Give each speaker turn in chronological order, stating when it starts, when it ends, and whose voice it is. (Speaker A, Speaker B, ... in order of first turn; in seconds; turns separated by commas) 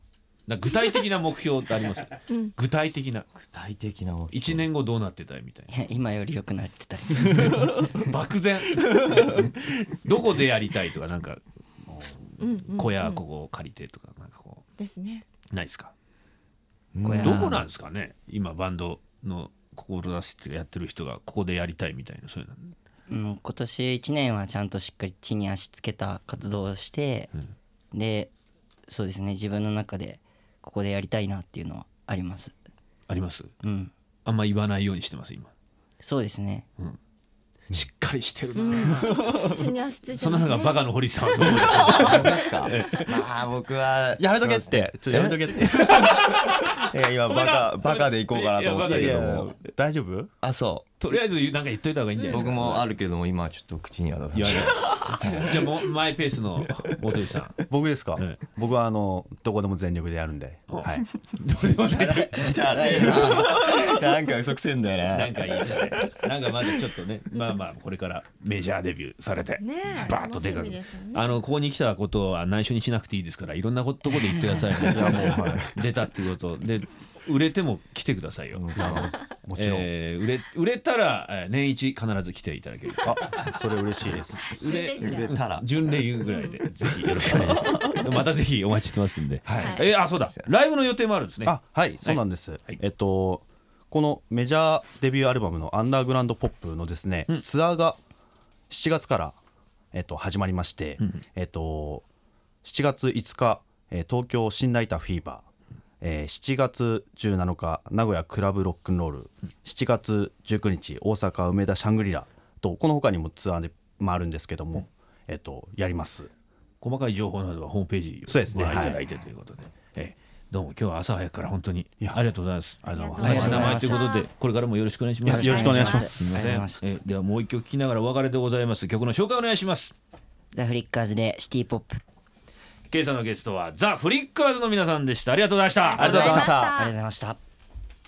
Speaker A: 0.5-3.3, Speaker B: 3.4-4.7, Speaker A: 4.3-5.7, Speaker C: 5.7-7.8, Speaker A: 7.8-14.7, Speaker D: 12.4-13.2, Speaker D: 14.8-15.2, Speaker A: 15.5-15.9, Speaker B: 16.9-17.5, Speaker C: 17.0-17.6, Speaker A: 17.2-22.7, Speaker C: 23.1-27.3, Speaker C: 27.9-28.3, Speaker C: 28.9-32.5, Speaker A: 33.1-33.5, Speaker C: 33.6-33.9, Speaker A: 34.2-35.5, Speaker C: 36.0-36.7, Speaker A: 37.7-39.4, Speaker D: 38.5-42.7, Speaker A: 40.1-43.1, Speaker B: 42.0-49.5, Speaker E: 44.2-46.3, Speaker A: 45.7-49.4, Speaker E: 48.8-50.3, Speaker B: 50.4-51.0, Speaker A: 51.0-52.9, Speaker D: 52.2-52.5, Speaker B: 52.3-55.8, Speaker A: 54.3-57.6, Speaker E: 57.7-61.0, Speaker A: 60.7-63.9, Speaker C: 61.8-63.9, Speaker B: 62.4-65.7, Speaker A: 65.1-83.4, Speaker D: 69.6-71.4, Speaker E: 74.9-75.8, Speaker B: 78.5-79.1, Speaker E: 78.7-79.9, Speaker E: 83.0-84.5, Speaker A: 84.0-92.8, Speaker D: 84.5-85.3, Speaker B: 85.0-85.7, Speaker D: 86.3-86.6, Speaker E: 89.4-89.8, Speaker D: 89.5-89.9, Speaker E: 91.4-98.0, Speaker E: 98.7-99.4, Speaker E: 99.9-102.0, Speaker E: 102.6-105.5, Speaker E: 106.0-116.3, Speaker A: 116.8-129.9, Speaker E: 118.3-119.0, Speaker E: 122.8-123.9, Speaker D: 122.9-124.3, Speaker C: 123.2-123.9, Speaker E: 125.2-126.5, Speaker C: 125.3-126.8, Speaker D: 125.3-126.1, Speaker C: 130.5-132.0, Speaker A: 132.9-136.5, Speaker D: 135.9-136.9, Speaker B: 136.0-136.7, Speaker C: 136.7-137.4